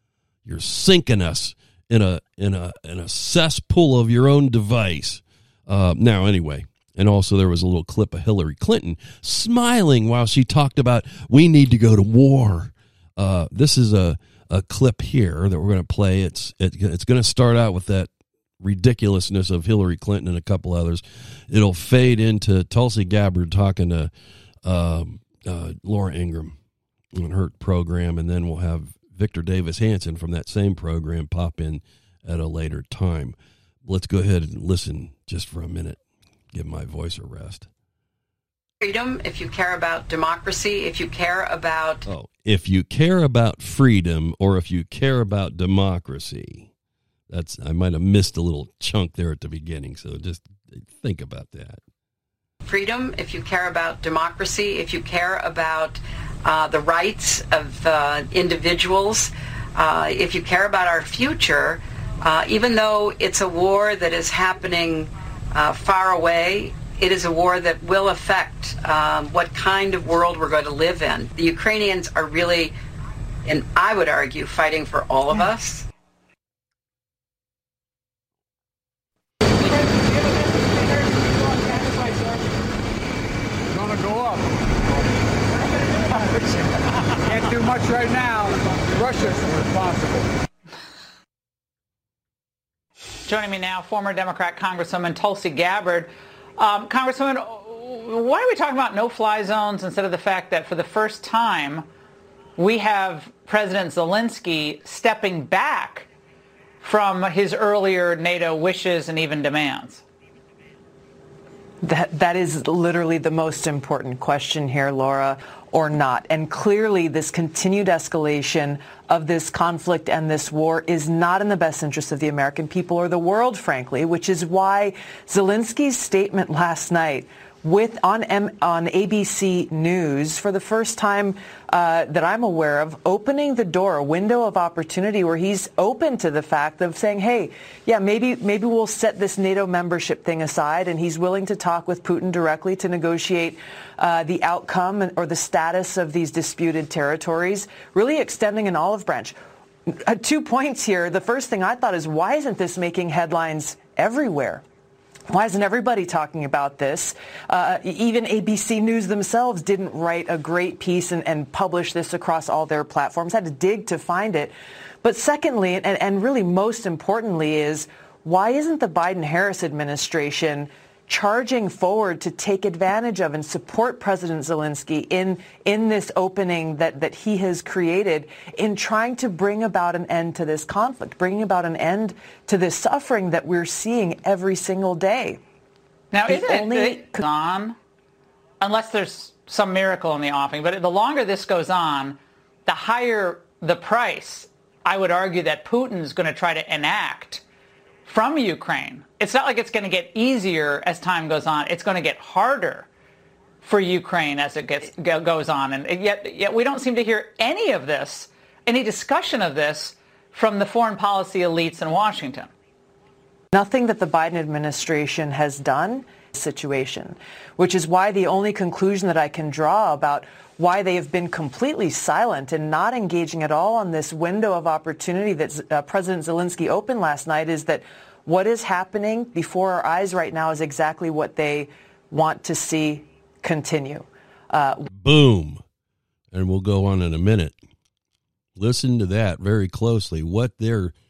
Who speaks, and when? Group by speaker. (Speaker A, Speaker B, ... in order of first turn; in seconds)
Speaker A: 0.5-24.1, 24.6-26.6, 27.2-36.0, 36.5-37.7, 42.1-46.7, 47.3-51.8, 234.9-235.6, 236.3-237.6, 238.6-240.9
Speaker B: 38.8-42.1, 52.6-72.7, 73.5-75.8
Speaker C: 83.7-84.6, 87.2-90.3
Speaker D: 93.2-101.9, 102.6-106.1, 106.8-110.0, 186.1-187.8, 188.6-197.4, 198.1-202.9, 203.6-212.5
Speaker E: 111.8-149.4, 149.9-154.6, 155.3-164.5, 165.0-185.4, 186.3-187.2, 213.5-234.8